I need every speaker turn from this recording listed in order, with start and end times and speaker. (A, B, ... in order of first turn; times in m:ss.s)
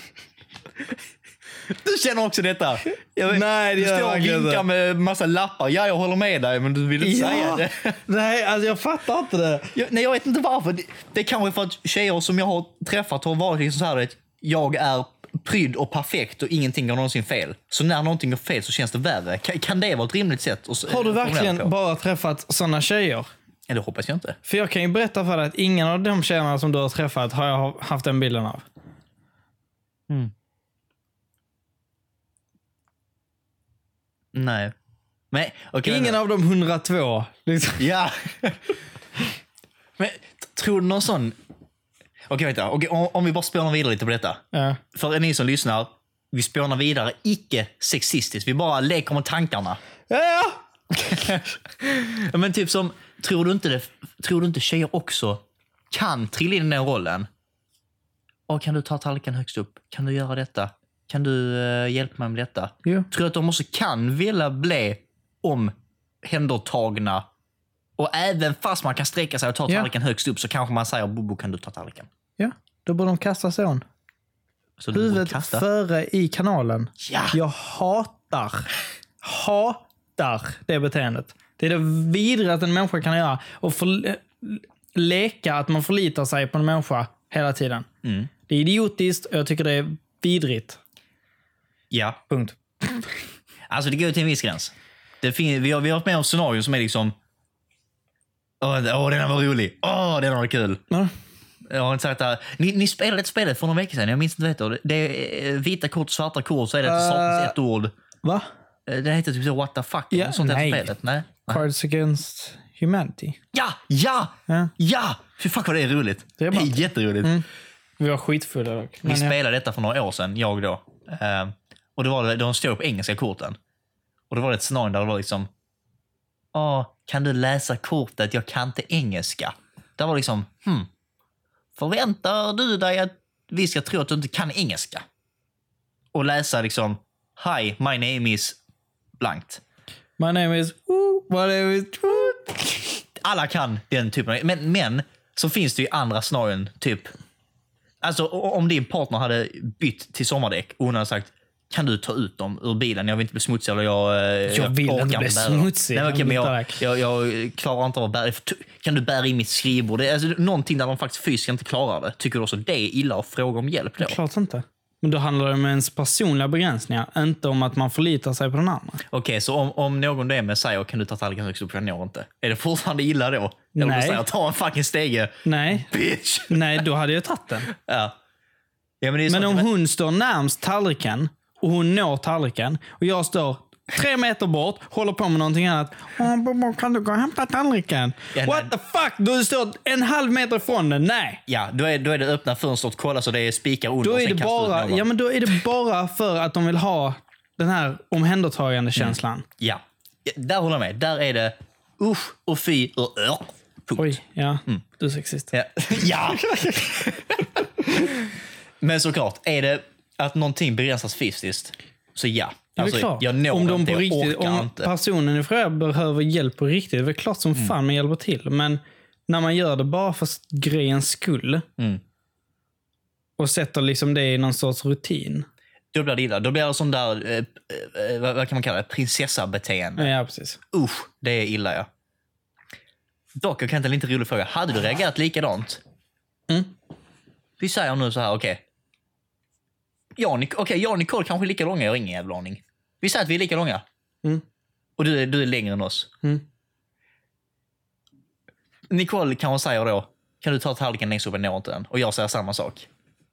0:01.7-0:08.0 A
0:03.3-0:04.6 B
0:07.0-0:09.7 B
0:09.7-0:21.7 A
0:20.9-0:23.3 B
0:23.7-0:24.4 A
0:24.4-0:28.7 B
0:34.3-0:34.7 A
0:35.3-0:36.2 A
0:35.8-0:37.9 B
0:37.8-0:38.6 A
0:40.0-0:41.4 A
0:42.3-0:49.8 A
0:44.5-0:44.8 B
0:50.1-0:50.6 B
0:50.9-0:57.3 A
0:58.5-1:07.3 A
1:08.0-1:12.1 A
1:12.4-1:13.8 B
1:14.8-1:15.6 A
1:14.9-1:18.7 B
1:17.0-1:17.4 A
1:19.2-1:27.9 B
1:28.0-1:28.3 A
1:28.5-1:30.8 B
1:31.9-1:32.2 A
1:32.3-1:32.6 B
1:33.7-1:37.2 A
1:38.6-1:40.8 A
1:41.7-1:47.9 A
1:46.8-1:47.6 B
1:48.2-1:48.5 B
1:48.9-1:51.6 A
1:50.1-1:50.9 B
1:51.5-1:53.4 B
1:53.5-1:57.4 A
1:56.4-1:57.5 B
1:58.0-1:59.4 B
1:59.0-2:03.6 A
2:04.3-2:05.5 A
2:06.5-2:10.9 A
2:11.8-2:15.0 A
2:16.1-2:18.6 A
2:19.2-2:19.6 A
2:20.2-2:22.9 B
2:23.2-2:27.1 A
2:28.0-2:44.2 A
2:34.5-2:36.8 B
2:44.0-2:49.0 B
2:49.1-2:56.8 A
2:53.8-2:54.2 B
2:55.4-2:55.9 B
2:56.5-2:57.7 B
2:57.7-2:58.2 A
2:59.0-2:59.7 A
2:59.3-3:11.4 B
3:08.3-3:08.7 A
3:11.5-3:15.1 A
3:14.0-3:19.5 B
3:19.0-3:24.8 A
3:24.0-3:26.8 B
3:25.5-3:34.9 A
3:32.8-3:41.6 B
3:43.4-3:45.5 B
3:45.9-3:50.1 A
3:50.0-3:50.6 B
3:50.7-3:51.9 A
3:53.4-3:55.8 A
3:57.6-3:58.6 A
4:00.2-4:03.8 A
4:05.0-4:06.1 A
4:08.9-4:12.9 A